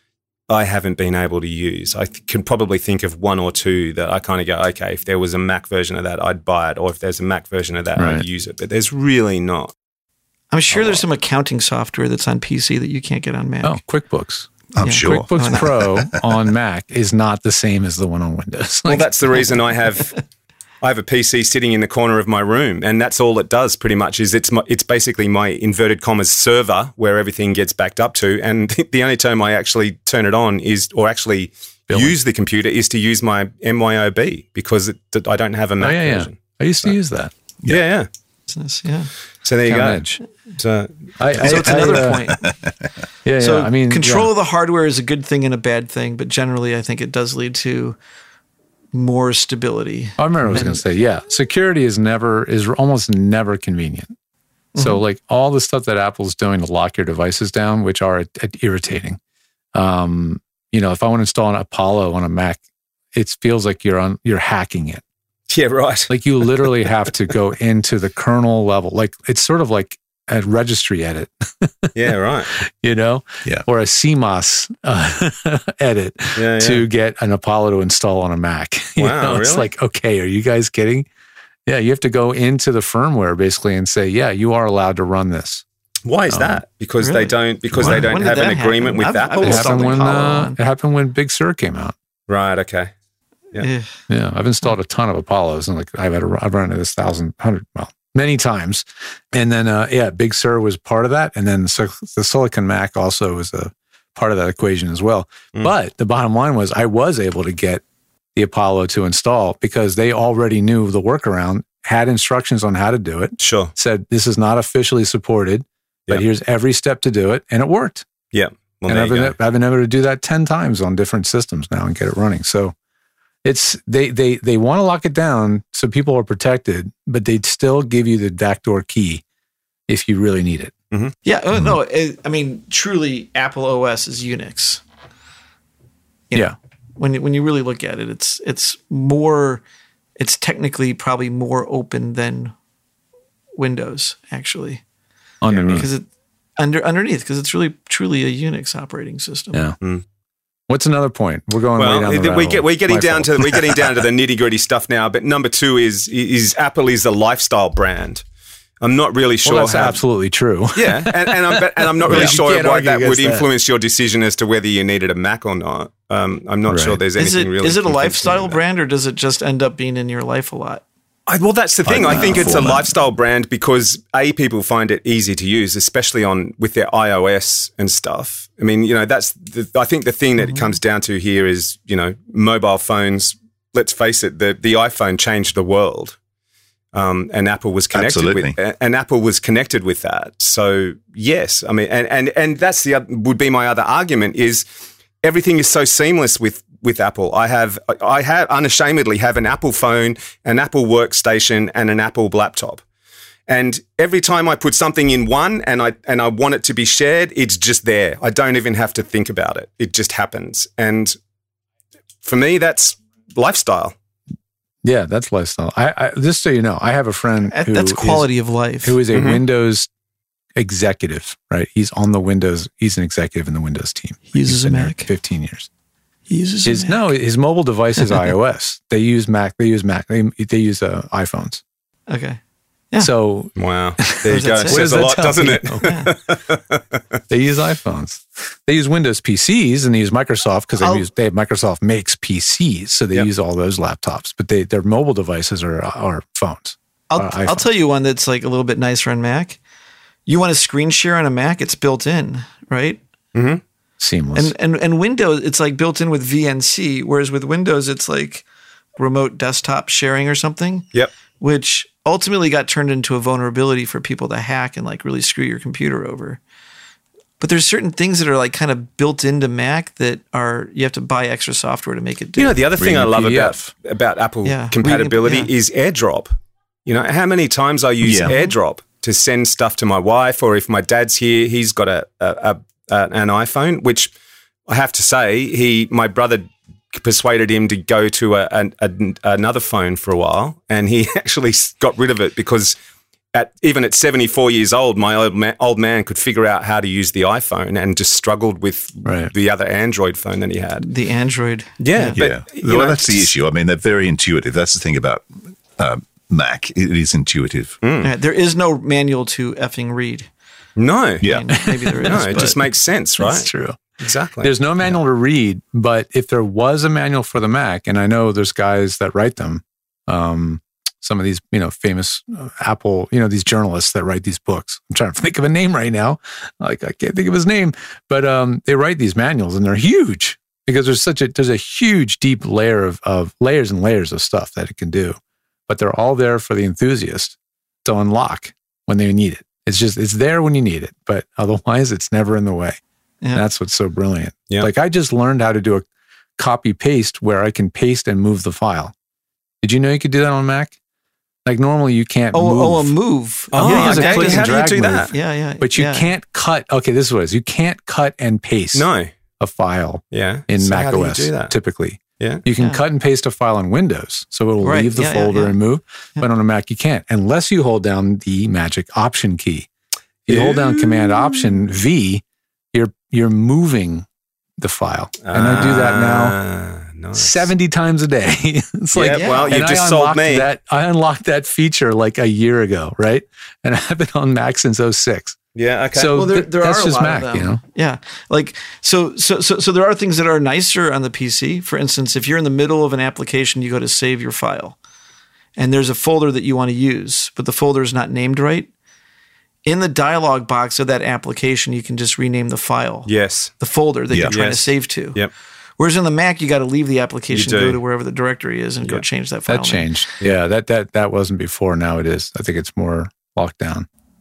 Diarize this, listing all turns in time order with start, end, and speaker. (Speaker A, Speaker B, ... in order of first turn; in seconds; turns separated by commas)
Speaker A: 0.5-9.7, Speaker B: 8.0-8.2, Speaker C: 10.5-13.8, Speaker B: 13.6-19.1, Speaker D: 14.7-16.2, Speaker C: 14.8-15.8, Speaker A: 18.9-20.1, Speaker A: 20.8-37.0, Speaker B: 31.9-32.1, Speaker B: 35.8-37.3, Speaker A: 37.7-38.1, Speaker C: 38.5-39.1, Speaker A: 39.4-41.9, Speaker B: 39.7-40.2, Speaker B: 41.2-42.3, Speaker C: 41.4-42.5, Speaker D: 42.4-42.7, Speaker B: 43.2-44.3, Speaker C: 43.4-48.0, Speaker C: 48.9-50.8, Speaker B: 50.2-54.1, Speaker C: 54.7-55.0, Speaker B: 54.8-59.2, Speaker B: 59.7-62.6, Speaker B: 63.1-65.0, Speaker A: 65.5-66.9, Speaker B: 66.1-71.9, Speaker A: 71.9-72.5, Speaker B: 72.5-81.0, Speaker A: 76.3-76.8, Speaker A: 79.0-79.7, Speaker B: 81.7-85.6, Speaker A: 86.0-90.0, Speaker B: 86.3-86.6, Speaker C: 87.0-90.6, Speaker B: 87.8-88.1, Speaker B: 89.4-91.9, Speaker A: 92.3-92.9, Speaker C: 93.5-93.9, Speaker B: 94.1-107.8, Speaker B: 108.3-118.0, Speaker A: 113.4-113.7, Speaker A: 118.3-119.3, Speaker B: 118.9-122.7, Speaker B: 123.4-129.2, Speaker B: 129.9-130.7, Speaker C: 131.2-134.8, Speaker C: 136.3-139.6, Speaker C: 140.2-142.5, Speaker C: 143.6-144.8, Speaker B: 145.4-145.9, Speaker A: 145.5-145.8, Speaker C: 145.7-146.1, Speaker C: 146.6-149.7, Speaker B: 150.7-153.8, Speaker A: 151.8-158.2, Speaker A: 158.8-160.0, Speaker B: 159.4-163.5, Speaker A: 160.7-168.6, Speaker B: 166.7-167.0, Speaker C: 167.1-170.8, Speaker A: 171.3-186.2, Speaker D: 171.8-173.0, Speaker A: 186.9-194.6, Speaker D: 187.9-188.6, Speaker A: 195.2-202.8, Speaker A: 203.5-211.2, Speaker A: 212.2-213.9, Speaker B: 214.8-218.3, Speaker C: 217.5-219.0, Speaker B: 218.8-219.9, Speaker A: 219.1-219.4, Speaker B: 220.6-225.7, Speaker C: 224.3-225.1, Speaker C: 226.3-227.0, Speaker B: 226.7-231.6, Speaker C: 228.0-228.3, Speaker C: 232.1-232.4, Speaker B: 233.0-235.9, Speaker A: 233.6-237.0, Speaker C: 234.2-235.1, Speaker C: 235.8-236.1, Speaker B: 237.3-247.7, Speaker C: 240.8-241.1, Speaker C: 247.1-249.6, Speaker C: 250.3-253.0, Speaker A: 253.3-253.6, Speaker B: 254.0-254.5, Speaker C: 254.3-258.4, Speaker C: 259.0-260.9, Speaker C: 261.4-266.4, Speaker C: 267.4-272.6, Speaker A: 272.4-276.3, Speaker D: 272.8-273.7, Speaker B: 273.0-273.5, Speaker C: 274.4-275.5, Speaker A: 276.9-284.1, Speaker D: 278.0-278.3, Speaker C: 278.3-278.5, Speaker A: 284.7-292.8, Speaker A: 293.3-300.9, Speaker B: 299.0-299.3, Speaker C: 300.8-302.2, Speaker A: 301.8-303.3, Speaker D: 302.1-307.8, Speaker A: 307.8-308.1, Speaker C: 308.0-310.3, Speaker A: 310.8-311.3, Speaker D: 311.2-311.5, Speaker C: 311.2-312.6, Speaker B: 311.6-312.3, Speaker A: 312.0-314.5, Speaker B: 313.2-313.8, Speaker B: 314.4-342.8, Speaker B: 343.3-345.8, Speaker B: 346.4-348.9, Speaker B: 349.6-350.7, Speaker B: 351.4-352.9, Speaker C: 352.3-356.1, Speaker A: 353.5-355.1, Speaker B: 353.5-358.9, Speaker A: 358.7-359.1, Speaker B: 359.4-369.7, Speaker A: 360.1-361.5, Speaker C: 362.6-362.8, Speaker C: 364.6-365.6, Speaker B: 370.3-374.1, Speaker A: 370.3-371.6, Speaker B: 374.6-376.4, Speaker A: 375.2-377.5, Speaker B: 377.1-385.4, Speaker A: 378.9-380.5, Speaker C: 379.1-379.6, Speaker A: 385.5-386.2, Speaker B: 385.9-387.6, Speaker C: 386.1-394.8, Speaker C: 395.6-398.7, Speaker C: 399.6-405.2, Speaker A: 403.1-403.5, Speaker D: 404.1-404.3, Speaker A: 404.3-405.3, Speaker C: 405.8-409.9, Speaker A: 407.3-407.8, Speaker B: 409.5-413.9